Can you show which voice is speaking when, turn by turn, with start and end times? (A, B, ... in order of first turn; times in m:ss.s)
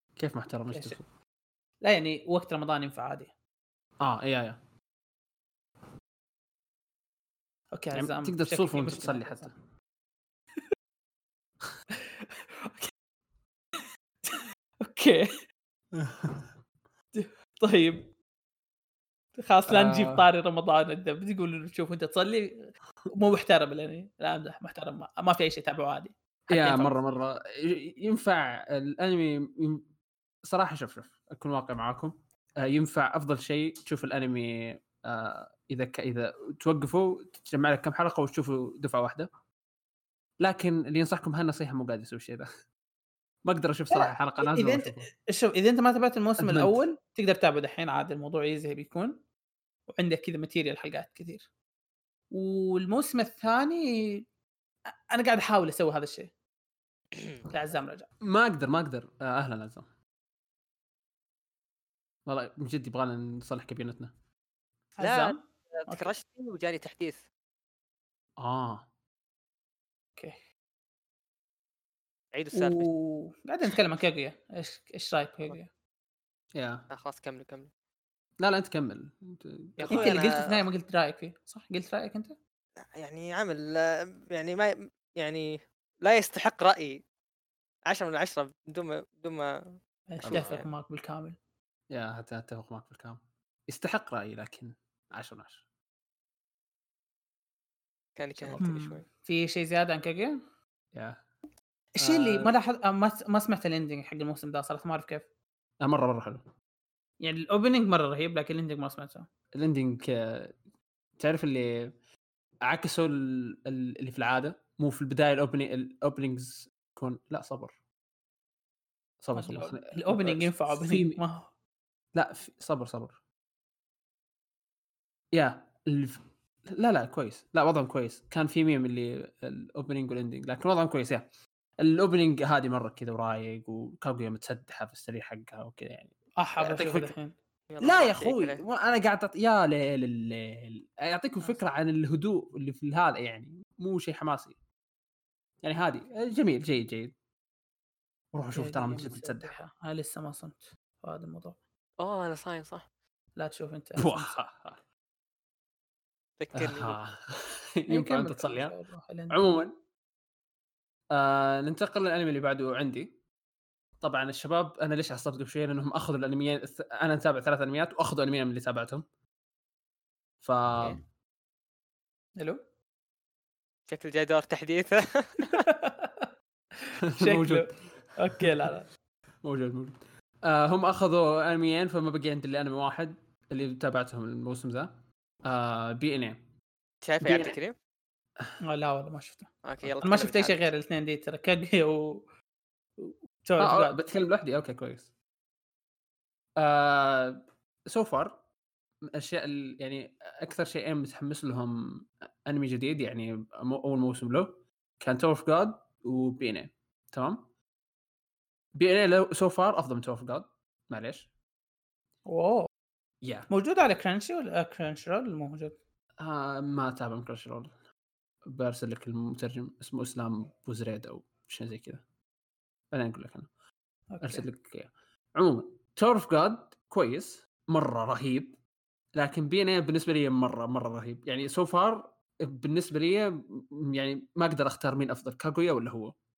0:00.2-0:01.1 A
0:01.8-0:03.3 B
0:04.0-0:04.6 A
0:07.7-0:09.5 B
0:07.9-0:09.5 A
0:12.1-0:12.9 B
0:14.2-0:15.3 B
0:16.0-0:16.5 A
0:17.2-0:18.1 B
0:19.4-0:26.9 B
0:19.7-0:20.2 A
0:26.5-0:29.8 A
0:30.5-0:39.3 A
0:40.4-0:42.5 A
0:43.4-0:45.1 A
0:43.9-0:49.2 B
0:46.4-0:46.8 A
0:49.9-0:51.4 B
0:52.3-0:54.2 B
0:55.1-0:56.3 B
0:57.5-0:58.1 B
0:58.2-0:59.9 A
1:02.3-1:04.1 A
1:05.0-1:06.1 B
1:05.0-1:07.2 C
1:08.4-1:08.9 A
1:12.3-1:12.9 C
1:12.5-1:15.7 B
1:16.6-1:16.8 A
1:16.9-1:17.7 C
1:18.4-1:20.2 A
1:19.8-1:20.6 C
1:19.9-1:22.4 B
1:22.8-1:27.0 C
1:27.9-1:29.8 C
1:30.1-1:31.4 B
1:30.2-1:30.6 A
1:30.3-1:30.7 C
1:31.9-1:35.6 A
1:38.2-1:39.0 C
1:38.4-1:38.7 A
1:38.6-1:40.4 B
1:40.9-1:41.2 A
1:42.0-1:45.3 B
1:42.0-1:42.5 A
1:45.8-1:46.4 A
1:47.2-1:49.3 B
1:49.6-1:50.6 A
1:51.2-1:51.9 A
1:52.7-1:57.8 A
1:59.2-2:01.2 A
1:59.4-2:01.5 B
2:02.1-2:03.2 A
2:05.3-2:11.2 A
2:11.8-2:17.1 A
2:16.4-2:17.3 B
2:17.7-2:18.6 C
2:17.8-2:24.6 A
2:25.6-2:27.1 A
2:28.3-2:29.5 A
2:28.6-2:31.6 B
2:32.0-2:32.9 C
2:33.4-2:34.3 B
2:34.0-2:34.8 A
2:36.4-2:37.0 C
2:36.6-2:38.8 A
2:37.9-2:39.6 B
2:39.3-2:39.7 A
2:41.1-2:43.2 A
2:44.0-2:49.0 A
2:50.4-2:51.0 A
2:53.9-2:55.6 C
2:55.5-2:56.3 B
2:56.8-2:58.9 B
2:57.0-2:57.7 A
2:59.4-3:06.5 A
3:07.0-3:07.8 C
3:07.2-3:07.6 A
3:08.6-3:12.2 B
3:09.6-3:10.7 C
3:13.0-3:14.0 B
3:13.6-3:15.1 A
3:16.6-3:18.4 A
3:19.1-3:27.5 A
3:28.8-3:31.3 A
3:32.3-3:32.7 B
3:33.2-3:33.5 A
3:33.5-3:35.7 B
3:36.2-3:37.7 A
3:38.5-3:42.0 A
3:42.9-3:43.5 A
3:44.1-3:44.4 B
3:44.2-3:48.6 A
3:49.2-3:56.1 A